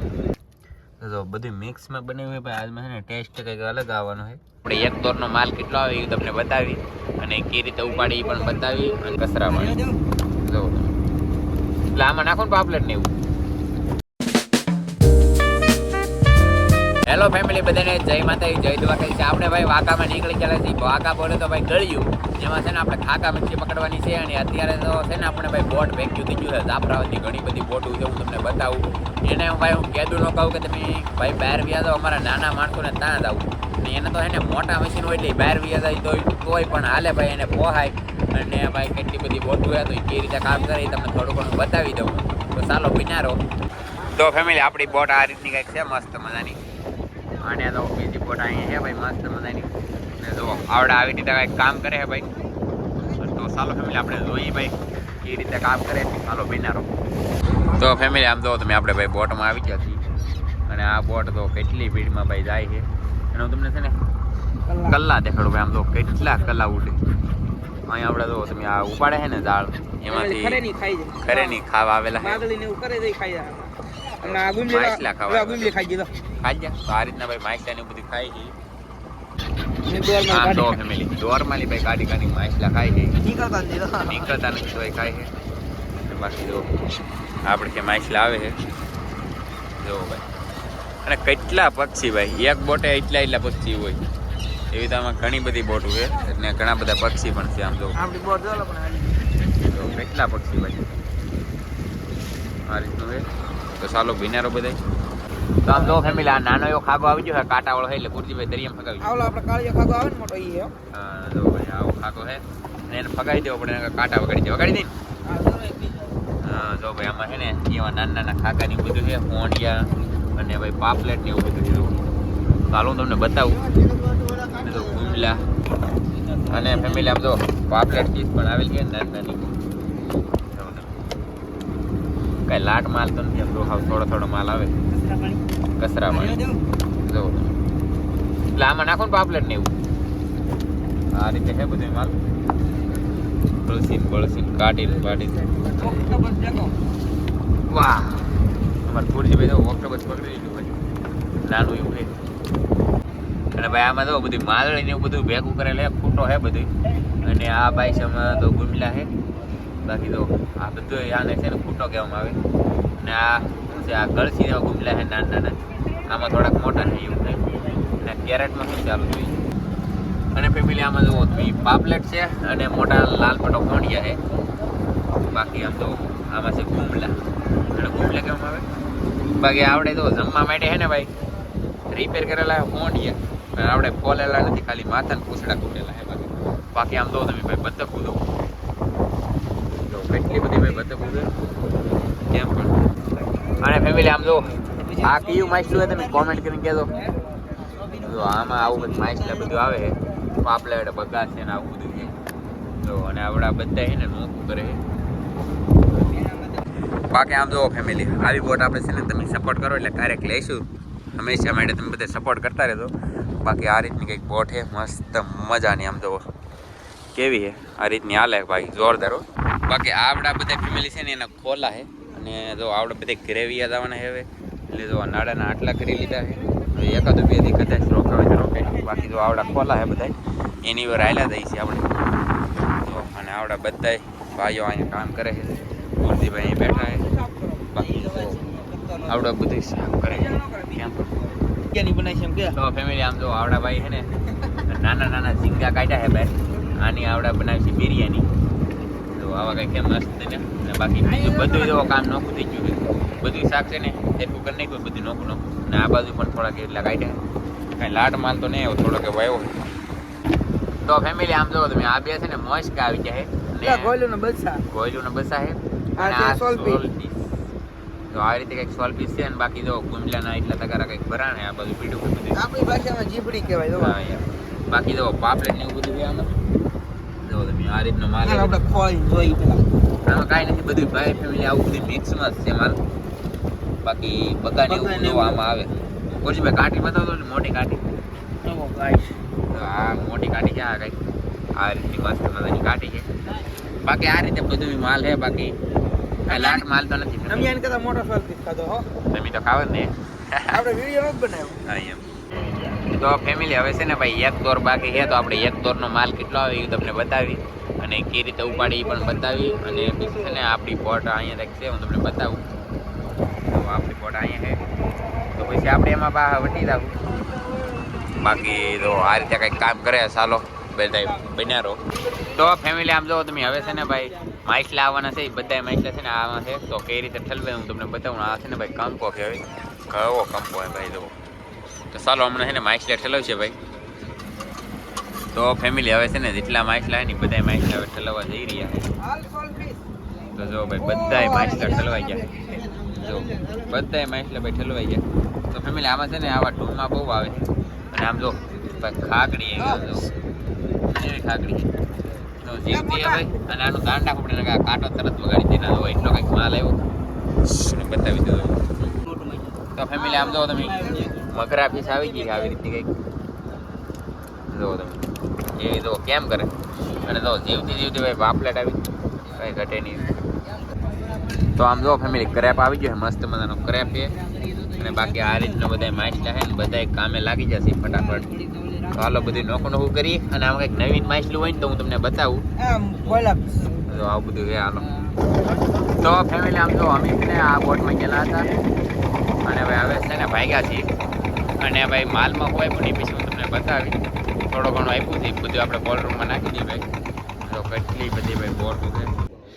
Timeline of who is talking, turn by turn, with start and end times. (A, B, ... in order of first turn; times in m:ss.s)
0:01.0-0:09.8 A
0:08.1-0:09.0 B
0:09.5-0:10.0 B
0:10.4-0:10.9 A
0:11.9-0:13.1 A
0:17.1-0:43.4 A
0:44.0-0:46.6 A
0:47.4-0:52.3 A
0:53.1-0:56.9 A
0:57.7-1:00.0 A
1:00.7-1:04.0 A
1:04.7-1:05.0 B
1:04.8-1:07.0 A
1:07.9-1:10.6 A
1:10.1-1:11.6 B
1:11.2-1:12.4 A
1:12.2-1:16.1 B
1:14.2-1:15.7 A
1:16.4-1:18.6 A
1:19.8-1:20.8 B
1:20.2-1:23.2 A
1:23.2-1:24.3 B
1:24.0-1:25.3 A
1:26.0-1:26.7 A
1:27.5-1:28.6 A
1:29.8-1:30.2 A
1:31.0-1:34.0 A
1:34.7-1:38.0 A
1:38.0-1:39.2 B
1:39.6-1:40.9 A
1:42.7-1:44.8 A
1:45.6-1:49.2 A
1:45.7-1:46.4 B
1:49.0-1:50.7 B
1:50.9-1:54.9 A
1:55.2-1:56.2 B
1:56.4-2:02.0 A
2:02.7-2:03.7 A
2:04.3-2:05.6 A
2:06.2-2:07.1 B
2:06.5-2:09.6 A
2:10.5-2:10.9 A
2:12.5-2:14.8 A
2:14.9-2:15.4 B
2:15.8-2:16.4 A
2:16.1-2:16.7 B
2:17.0-2:17.5 A
2:18.5-2:19.7 A
2:21.1-2:22.2 A
2:23.7-2:25.6 A
2:25.6-2:26.8 B
2:27.7-2:30.7 A
2:31.4-2:32.1 A
2:33.5-2:36.7 A
2:37.2-2:39.1 A
2:39.8-2:42.4 A
2:43.0-2:47.4 A
2:48.0-2:49.4 A
2:50.3-2:54.2 A
2:55.3-2:57.2 A
2:57.7-2:58.7 A
2:59.4-3:01.1 A
3:01.9-3:08.2 A
3:09.9-3:11.3 A
3:12.3-3:12.8 A
3:13.6-3:17.0 A
3:14.7-3:17.1 B
3:17.8-3:19.3 B
3:18.0-3:22.2 A
3:22.8-3:24.8 A
3:25.9-3:26.7 B
3:27.1-3:30.6 A
3:31.2-3:36.2 A
3:37.2-3:51.9 A
3:52.8-3:57.1 A
3:56.5-3:59.2 B
3:57.7-3:58.4 A
3:59.1-4:01.1 A
4:00.1-4:02.6 B
4:02.5-4:08.3 A
4:09.1-4:17.2 A
4:11.0-4:11.9 B
4:17.8-4:19.6 A
4:20.8-4:23.9 A
4:23.6-4:24.6 B
4:24.7-4:27.3 A
4:26.0-4:26.9 B
4:28.1-4:32.5 A
4:32.3-4:34.0 B
4:33.8-4:36.3 A
4:37.2-4:38.6 A
4:38.2-4:39.6 B
4:40.0-4:42.8 A
4:43.8-4:47.8 A
4:44.7-4:45.4 B
4:48.4-4:49.2 B
4:49.5-4:51.0 A
4:51.6-4:53.1 A
4:53.8-4:55.6 A
4:56.3-4:56.7 B
4:56.3-4:57.5 A
4:57.3-4:58.9 B
4:59.1-5:00.6 A
5:00.5-5:01.6 B
5:01.6-5:02.1 A
5:02.9-5:12.4 A
5:08.7-5:10.1 B
5:13.4-5:14.6 A
5:15.4-5:17.0 A
5:18.1-5:31.1 A
5:23.6-5:24.1 B
5:31.9-5:33.6 A
5:35.3-5:38.8 A
5:39.0-5:39.8 B
5:40.4-5:50.1 A
5:40.7-5:42.8 B
5:49.6-5:49.9 B
5:50.9-5:51.7 A
5:52.4-5:56.8 A
5:52.7-5:53.4 B
5:57.4-5:58.6 A
5:58.9-6:01.3 B
5:59.8-6:02.9 A
6:02.0-6:02.5 B
6:04.5-6:06.5 A
6:07.0-6:08.8 A
6:09.3-6:10.1 A
6:11.5-6:14.2 A
6:14.2-6:16.0 B
6:14.7-6:18.3 A
6:17.9-6:19.7 B
6:18.9-6:22.4 A
6:22.6-6:24.0 B
6:23.9-6:25.0 A
6:25.9-6:28.5 A
6:29.4-6:30.9 A
6:31.6-6:34.0 A
6:34.5-6:36.9 A
6:37.4-6:39.1 A